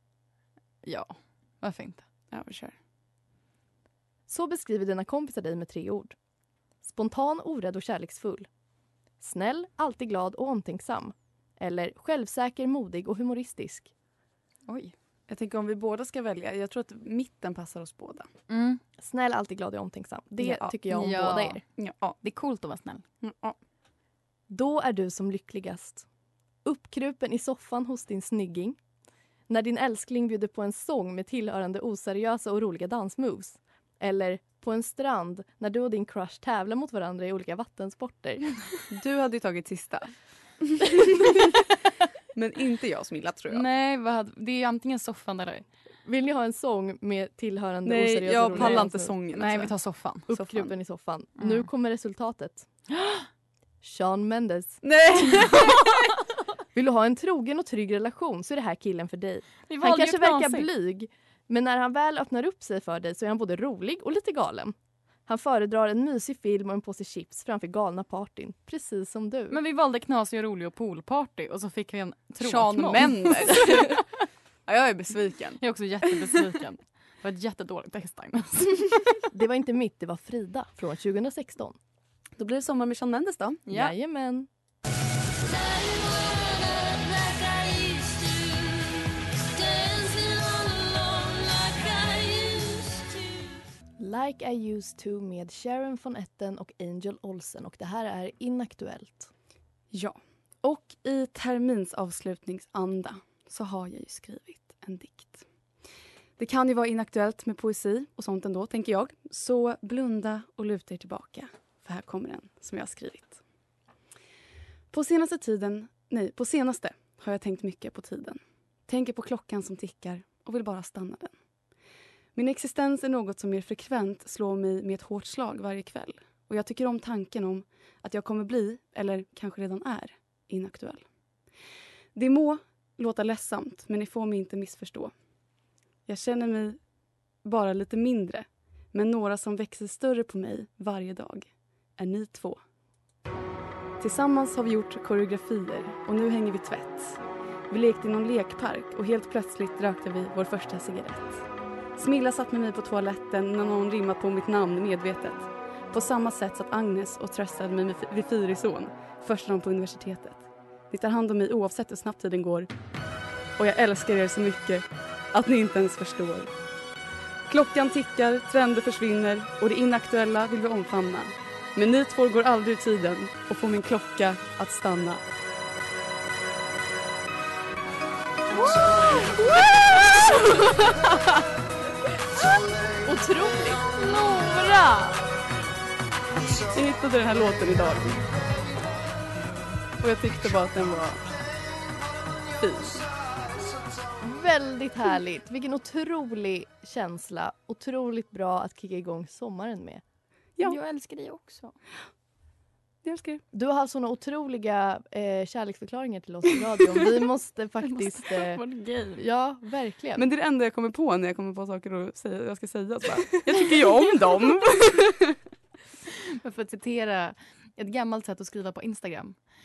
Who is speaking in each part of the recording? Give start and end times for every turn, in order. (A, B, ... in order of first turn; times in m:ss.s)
0:00.8-0:02.0 A
0:02.3-0:02.7 B
0:04.3-0:06.2 C
0:06.8-0:08.5 C
0:09.2-0:13.9 C
0:14.7-0:14.9 A
0:15.3-0:18.3 B
0:18.5-0:18.8 A
0:19.0-0:21.6 C
0:20.4-0:21.1 B
0:20.9-0:23.0 A
0:21.8-0:22.2 B
0:23.2-0:23.6 B
0:24.5-0:26.0 C
0:26.6-0:28.8 C
0:29.5-0:38.8 C
0:38.9-0:40.1 B
0:42.3-0:43.6 B
0:43.5-0:45.6 A
0:46.0-0:49.1 C
0:47.8-0:49.7 B
0:48.5-0:50.3 A
0:50.3-0:50.7 B
0:50.3-0:52.7 C
0:51.4-0:51.7 A
0:53.8-0:55.5 C
0:54.8-0:55.9 B
0:56.7-1:04.7 C
0:59.7-1:00.7 A
1:05.3-1:09.6 C
1:09.5-1:14.1 A
1:12.4-1:14.0 B
1:14.7-1:15.6 B
1:15.6-1:19.2 A
1:19.3-1:21.8 C
1:22.4-1:23.7 B
1:23.7-1:24.5 C
1:34.0-1:39.3 C
1:39.9-1:45.5 B
1:46.4-1:53.4 B
1:54.9-2:01.3 B
2:02.3-2:11.0 B
2:12.1-2:15.1 B
2:16.0-2:16.8 B
2:17.4-2:22.6 B
2:24.0-2:31.4 B
2:31.9-2:42.7 B
2:43.6-2:46.5 B
2:47.5-2:55.2 B
3:03.0-3:05.0 C
3:06.7-3:08.2 B
3:10.0-3:11.2 B
3:12.6-3:13.1 B
3:14.2-3:20.0 C
3:20.6-3:21.8 A
3:23.0-3:23.4 B
3:23.5-3:28.6 C
3:27.8-3:29.2 A
3:29.2-3:30.2 C
3:30.2-3:35.1 B
3:36.4-3:39.4 A